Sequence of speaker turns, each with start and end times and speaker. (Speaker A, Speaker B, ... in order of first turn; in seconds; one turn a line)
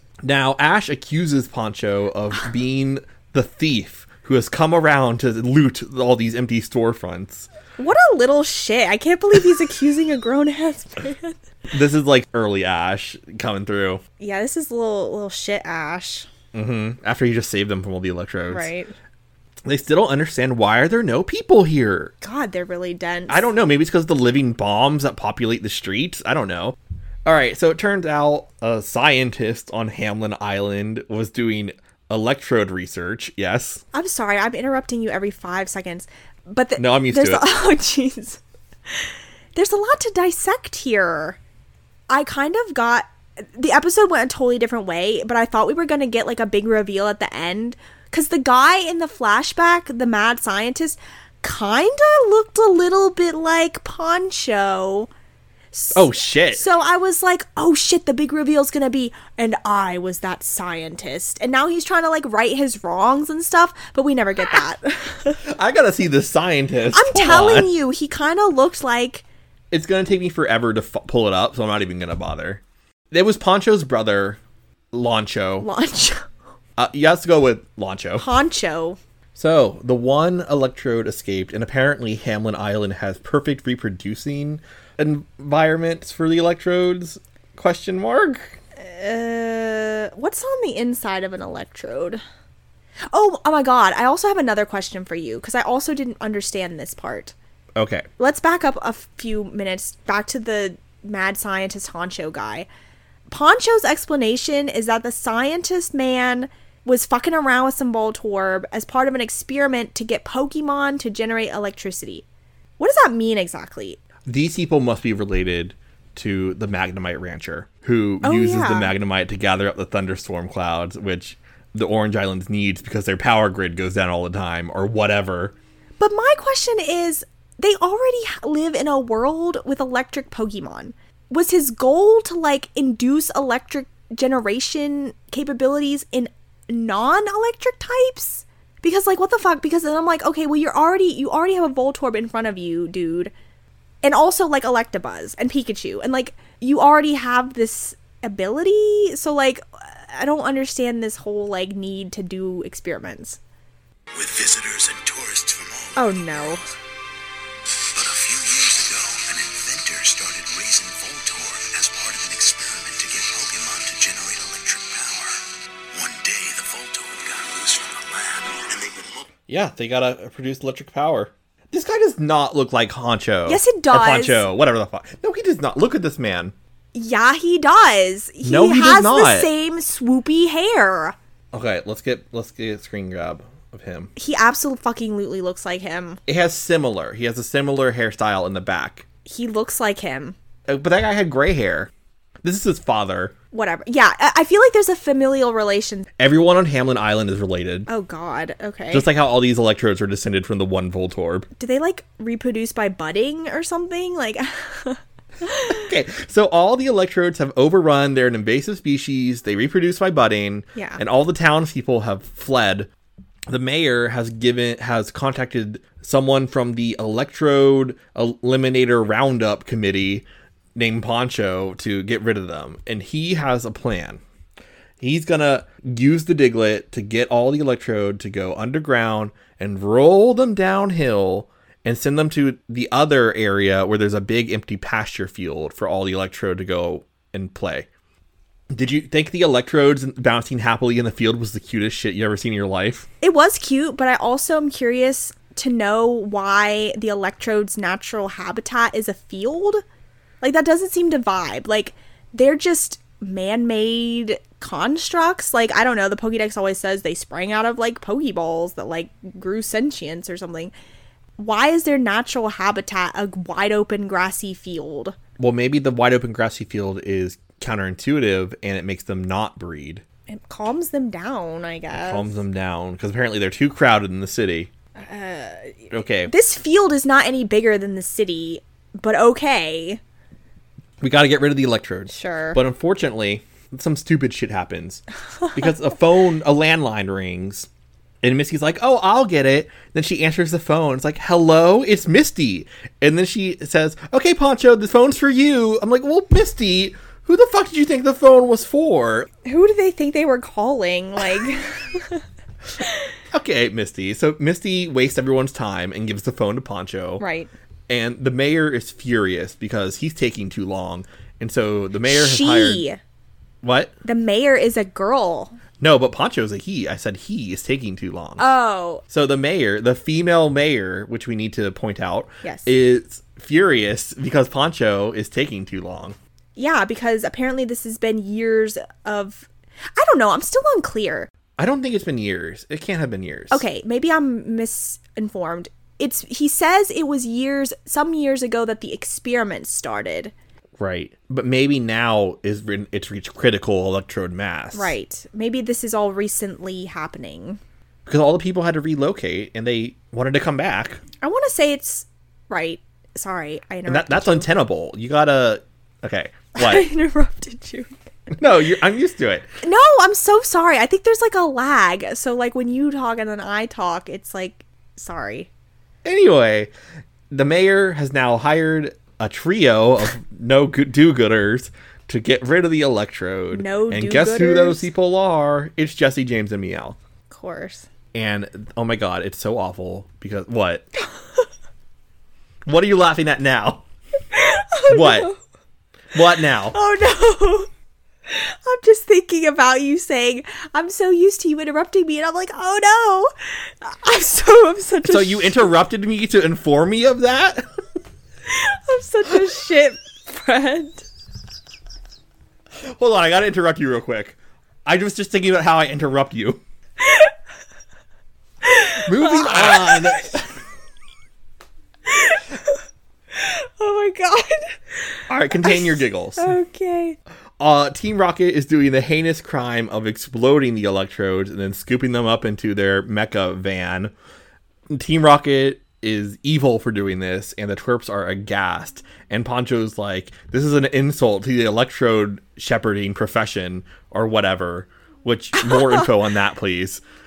Speaker A: 0.2-7.5
Speaker B: 7.8-11.4
Speaker A: 11.7-14.0
Speaker B: 14.2-16.3
Speaker A: 16.5-18.7
Speaker B: 18.5-18.9
Speaker A: 19.6-22.1
Speaker B: 22.2-23.4
Speaker A: 23.3-33.8
Speaker B: 33.9-38.4
Speaker A: 36.8-37.5
Speaker B: 38.9-41.4
Speaker B: 42.1-55.1
Speaker B: 55.7-65.4
Speaker A: 55.9-56.7
Speaker A: 65.4-67.7
Speaker B: 66.9-69.2
Speaker A: 69.7-74.4
Speaker A: 74.9-75.7
Speaker B: 75.6-76.2
Speaker A: 76.8-78.3
Speaker B: 78.2-79.0
Speaker A: 79.3-88.6
Speaker B: 88.8-92.2
Speaker B: 93.1-97.3
Speaker A: 97.8-98.1
Speaker B: 98.2-102.7
Speaker B: 103.3-112.2
Speaker B: 112.8-114.0
Speaker A: 114.3-125.5
Speaker B: 118.2-118.9
Speaker B: 126.0-143.3
Speaker B: 144.0-153.4
Speaker C: 154.1-156.6
Speaker B: 155.9-156.7
Speaker C: 157.9-165.4
Speaker C: 165.9-169.3
Speaker A: 169.5-176.5
Speaker B: 173.4-174.4
Speaker B: 176.9-181.2
Speaker A: 178.4-179.5
Speaker A: 181.5-184.1
Speaker B: 184.2-186.2
Speaker A: 186.3-189.1
Speaker B: 189.2-190.4
Speaker A: 190.7-191.9
Speaker A: 192.4-193.3
Speaker B: 193.5-196.1
Speaker A: 196.2-197.9
Speaker B: 197.9-199.1
Speaker A: 198.9-201.5
Speaker B: 201.6-205.9
Speaker A: 205.7-212.9
Speaker B: 210.7-211.0
Speaker A: 213.5-224.2
Speaker A: 225.0-237.9
Speaker A: 238.7-243.1
Speaker B: 243.2-249.8
Speaker B: 250.4-260.7
Speaker B: 261.4-265.2
Speaker A: 265.4-270.0
Speaker B: 270.3-272.4
Speaker A: 271.9-274.7
Speaker B: 274.9-280.0
Speaker A: 275.9-276.3
Speaker A: 281.0-287.7
Speaker B: 282.1-282.6
Speaker A: 288.2-299.3
Speaker B: 299.4-302.2
Speaker B: 302.8-303.1
Speaker A: 303.3-307.2
Speaker B: 307.2-307.5
Speaker A: 307.9-312.8
Speaker B: 312.1-313.0
Speaker A: 313.6-313.9
Speaker B: 314.0-315.6
Speaker A: 315.8-318.5
Speaker B: 318.4-319.0
Speaker A: 319.1-326.2
Speaker B: 322.4-322.7
Speaker B: 326.6-331.3
Speaker A: 331.6-333.6
Speaker B: 333.5-340.3
Speaker A: 340.8-344.9
Speaker B: 344.7-347.6
Speaker A: 348.1-351.0
Speaker B: 351.2-354.5
Speaker A: 353.9-356.9
Speaker B: 356.6-357.9
Speaker A: 358.4-359.5
Speaker B: 359.6-365.5
Speaker A: 366.0-366.7
Speaker A: 367.3-377.0
Speaker B: 373.5-374.9
Speaker B: 377.3-377.9
Speaker A: 378.1-380.9
Speaker A: 382.7-383.8
Speaker B: 384.3-385.4
Speaker A: 384.9-385.3
Speaker A: 386.1-386.8
Speaker B: 386.7-387.7
Speaker B: 388.3-395.7
Speaker A: 395.1-397.7
Speaker B: 398.5-401.1
Speaker A: 402.8-406.6
Speaker B: 407.0-407.3
Speaker B: 408.6-410.4
Speaker A: 409.0-410.5
Speaker B: 412.1-412.8
Speaker B: 413.3-417.2
Speaker A: 415.3-416.6
Speaker A: 417.6-424.1
Speaker A: 424.9-437.0
Speaker B: 435.6-436.1